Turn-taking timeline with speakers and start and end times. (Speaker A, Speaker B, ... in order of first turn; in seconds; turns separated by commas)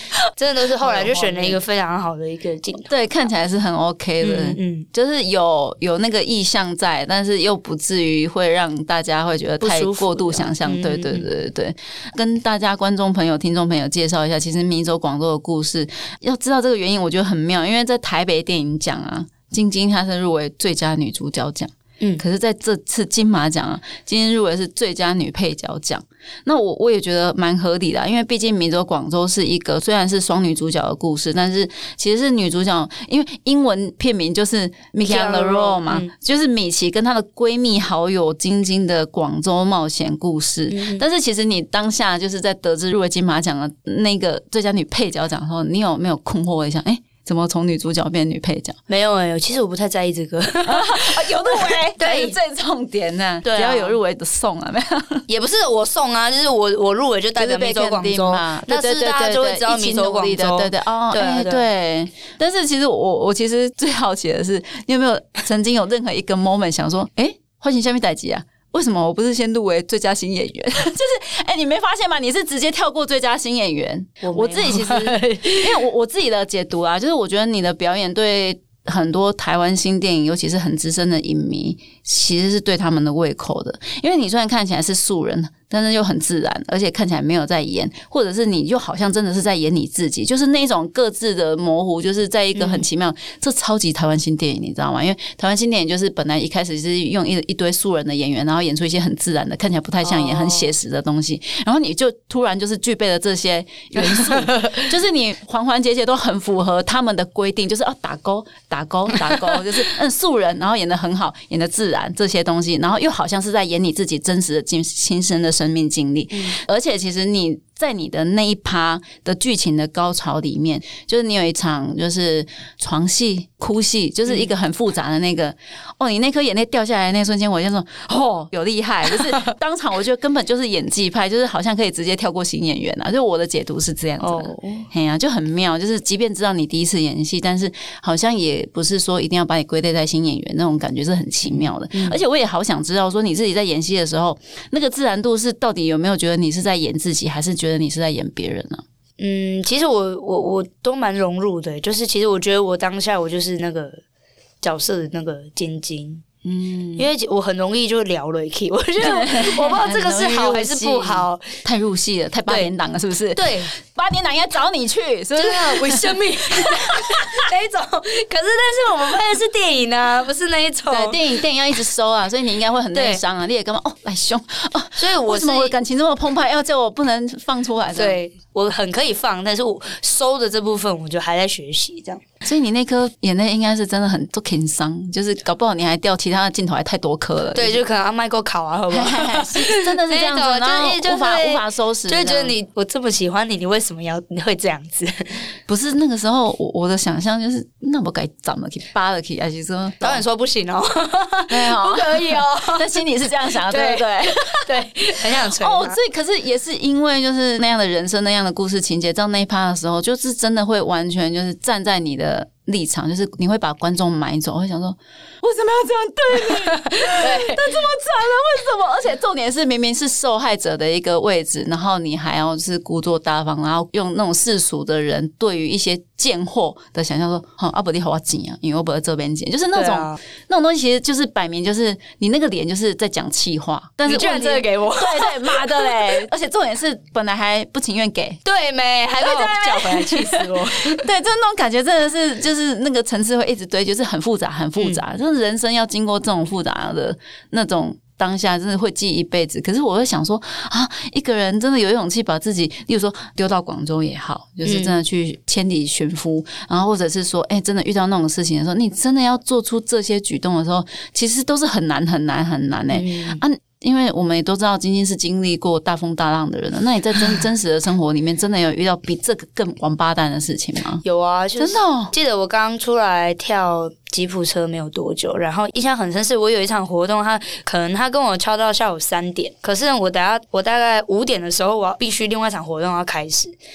Speaker A: 0.3-2.9, Speaker B: 0.8-1.6, Speaker B: 2.9-48.8, Speaker A: 4.2-4.9, Speaker A: 9.6-11.3, Speaker A: 35.0-36.1, Speaker A: 40.7-41.0, Speaker A: 48.9-52.4, Speaker B: 50.6-55.2, Speaker A: 53.4-54.0, Speaker A: 55.3-61.6, Speaker B: 57.4-148.8, Speaker A: 74.2-75.8, Speaker A: 92.5-92.8, Speaker A: 100.0-100.7, Speaker A: 104.0-104.9, Speaker A: 134.2-134.9, Speaker A: 141.5-142.2, Speaker A: 149.2-154.0, Speaker A: 154.6-156.2, Speaker B: 156.4-157.1, Speaker A: 157.0-161.4, Speaker B: 159.0-167.4, Speaker A: 163.3-163.7, Speaker A: 165.3-171.3, Speaker B: 170.9-178.2, Speaker A: 172.9-173.2, Speaker A: 175.0-175.7, Speaker A: 177.9-182.2, Speaker B: 182.4-187.8, Speaker A: 187.5-195.3, Speaker B: 188.9-192.5, Speaker B: 195.7-200.2, Speaker A: 200.0-203.0, Speaker B: 201.5-204.8, Speaker A: 203.6-206.0, Speaker B: 205.3-238.4, Speaker A: 216.4-217.7, Speaker A: 229.7-230.2, Speaker A: 234.1-236.1, Speaker A: 238.4-241.0, Speaker B: 239.2-271.0, Speaker A: 254.6-254.9, Speaker A: 262.9-263.4, Speaker A: 271.0-283.5, Speaker B: 271.6-272.1